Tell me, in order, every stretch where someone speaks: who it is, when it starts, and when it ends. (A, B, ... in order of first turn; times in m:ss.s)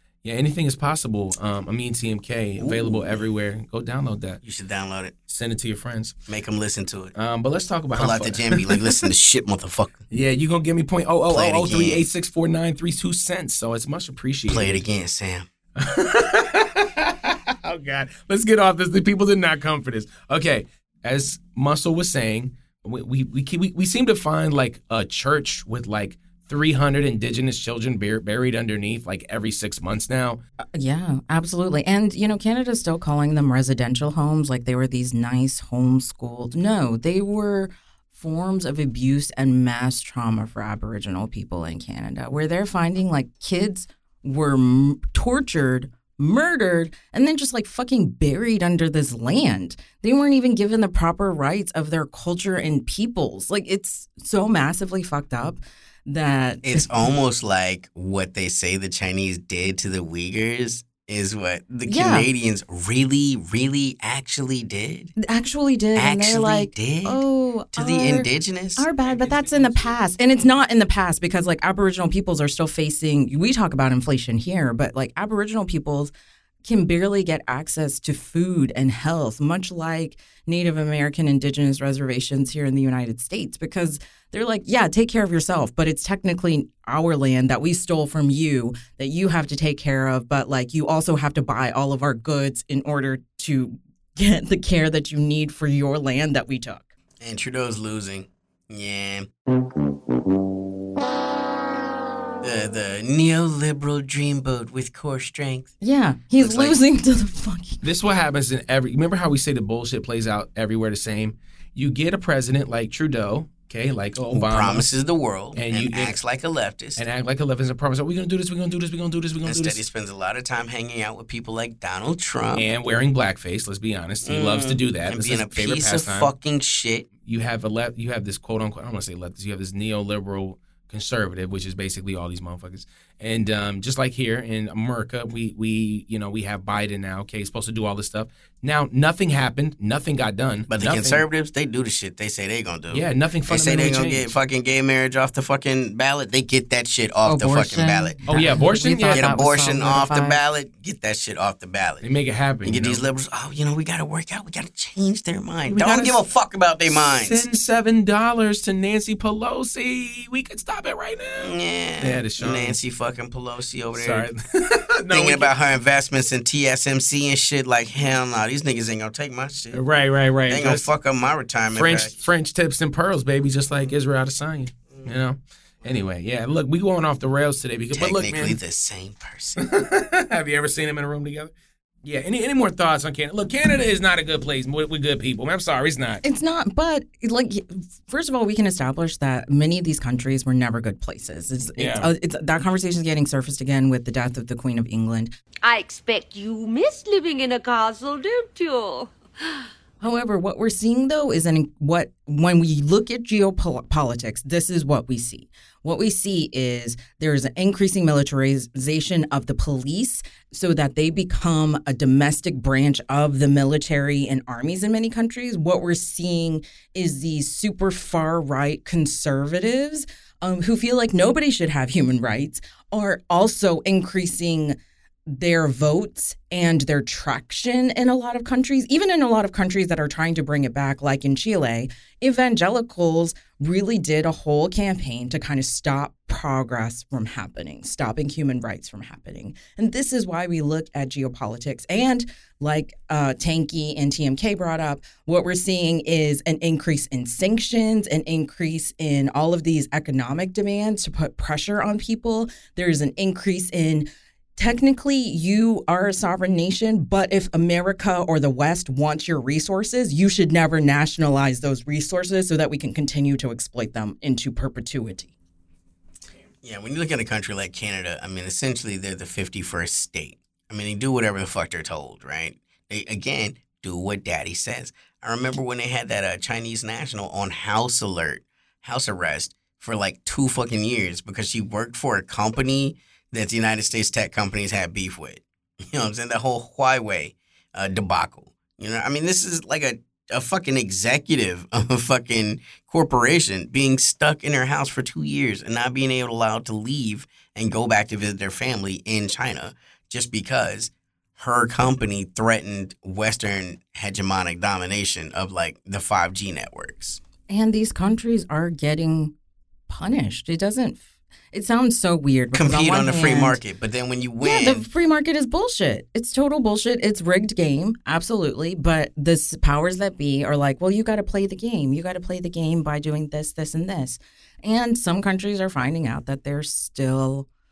0:00.2-0:04.4 A
0:02.6-0:03.2 B
0:04.4-0:05.1 B
0:05.3-0:06.1 A
0:06.3-0:07.1 B
0:07.1-0:09.1 A
0:07.9-0:10.1 B
0:10.1-0:14.8 A
0:11.3-0:12.0 B
0:14.5-0:15.5 B
0:15.8-0:30.4 A
0:30.8-0:56.9 C
0:56.6-1:05.1 B
1:01.9-1:02.3 C
1:05.2-1:16.1 C
1:06.0-1:07.2 B
1:07.7-1:10.0 B
1:16.6-1:36.9 C
1:37.2-1:39.3 B
1:42.4-1:45.7 B
1:45.8-1:47.8 C
1:46.4-1:46.8 B
1:47.8-1:54.9 A
1:54.3-1:57.0 B
1:55.6-1:56.2 A
1:57.0-1:59.8 A
1:59.4-2:02.7 B
2:02.5-2:06.3 A
2:04.2-2:07.1 B
2:07.2-2:21.2 A
2:20.7-2:28.6 B
2:22.9-2:24.3 A
2:27.2-2:30.4 C
2:28.3-2:29.3 A
2:29.1-2:32.1 B
2:32.0-2:33.0 A
2:32.6-2:37.4 B
2:35.6-2:36.2 A
2:36.9-2:42.8 A
2:41.4-2:44.3 B
2:44.0-2:45.5 A
2:45.1-2:49.8 B
2:49.7-2:50.9 A
2:50.5-2:52.1 B
2:51.8-2:58.6 A
2:57.9-2:59.6 B
2:59.6-3:01.5 A
3:02.0-3:06.2 A
3:06.2-3:15.3 C
3:11.8-3:12.1 A
3:15.6-3:19.6 D
3:20.0-3:44.8 C
3:45.3-4:25.3 C
4:26.6-5:07.2 B
5:07.5-5:09.3 C
5:09.9-5:13.6 C
5:12.5-5:14.9 B
5:14.4-5:27.5 C